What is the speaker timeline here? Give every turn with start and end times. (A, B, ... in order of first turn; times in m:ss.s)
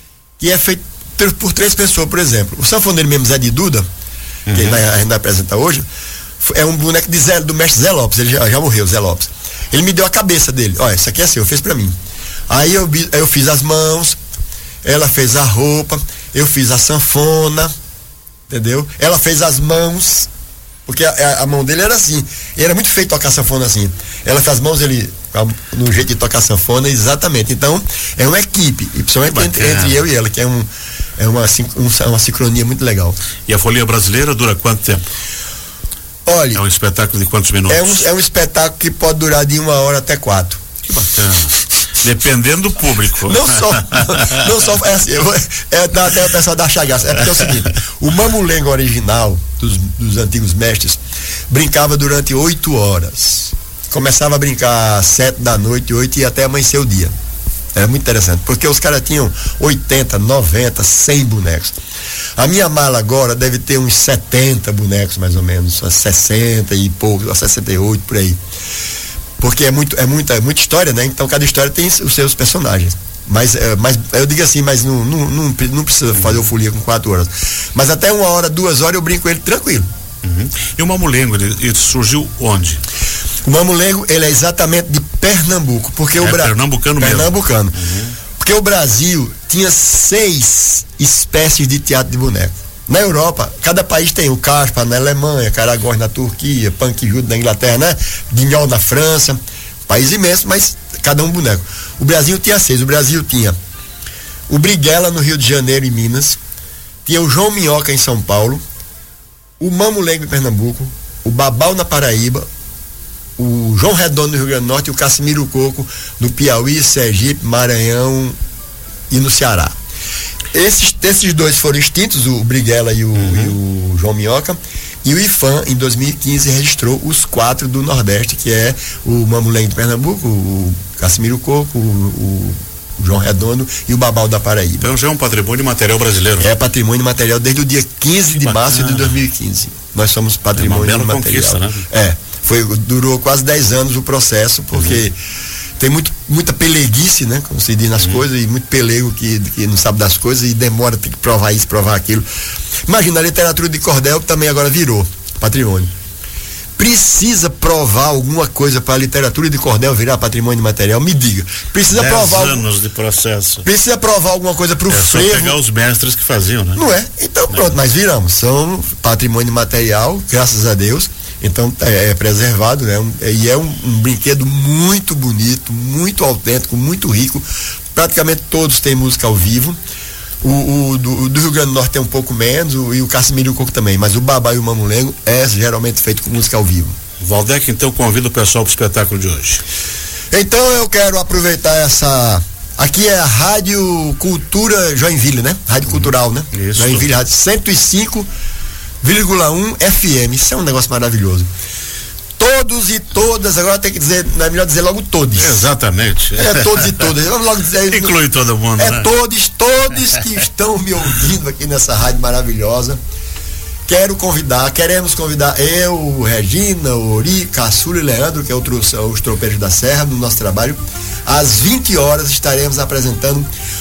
0:00.4-0:03.9 A
0:04.5-0:04.8 B
0:04.5-0:05.8 A
0:06.4-0:12.0 A
0:12.5-0:14.2 A
0:14.8-0:17.7 A
0:18.5-0:20.3 A
0:20.9-0:33.2 A
0:29.2-0:30.0 B
0:33.5-0:35.1 B
0:36.3-0:36.6 A
0:36.5-0:38.1 B
0:37.7-0:40.6 A
0:40.8-0:44.5 B
0:43.2-0:51.0 A
0:51.5-0:57.1 A
0:57.7-1:01.8 A
1:02.4-1:08.4 A
1:09.4-1:19.9 A
1:20.2-1:22.8 B
1:23.4-1:27.8 A
1:26.2-1:28.2 B
1:28.4-1:43.6 A
1:44.5-1:46.4 A
1:47.0-1:48.6 A
1:49.6-1:52.5 A
1:53.4-1:58.4 A
1:59.1-1:59.8 A
2:00.5-2:14.9 A
2:03.2-2:03.6 B
2:14.8-2:16.5 B
2:16.4-2:25.2 A
2:18.4-2:19.2 B
2:20.6-2:21.8 B
2:24.7-2:25.0 B
2:25.8-2:32.2 A
2:32.9-2:35.9 A
2:36.8-2:42.6 A
2:41.9-2:43.7 B
2:43.6-2:45.6 A
2:44.9-2:46.9 B
2:46.8-2:59.8 A
3:00.4-3:06.9 A
3:07.2-3:09.6 B
3:10.3-3:18.3 A
3:15.9-3:17.1 B
3:19.0-3:21.5 A
3:22.4-3:25.7 A
3:25.4-3:27.1 B
3:26.4-3:28.2 A
3:27.9-3:29.1 B
3:28.8-3:33.0 A
3:33.9-3:43.5 A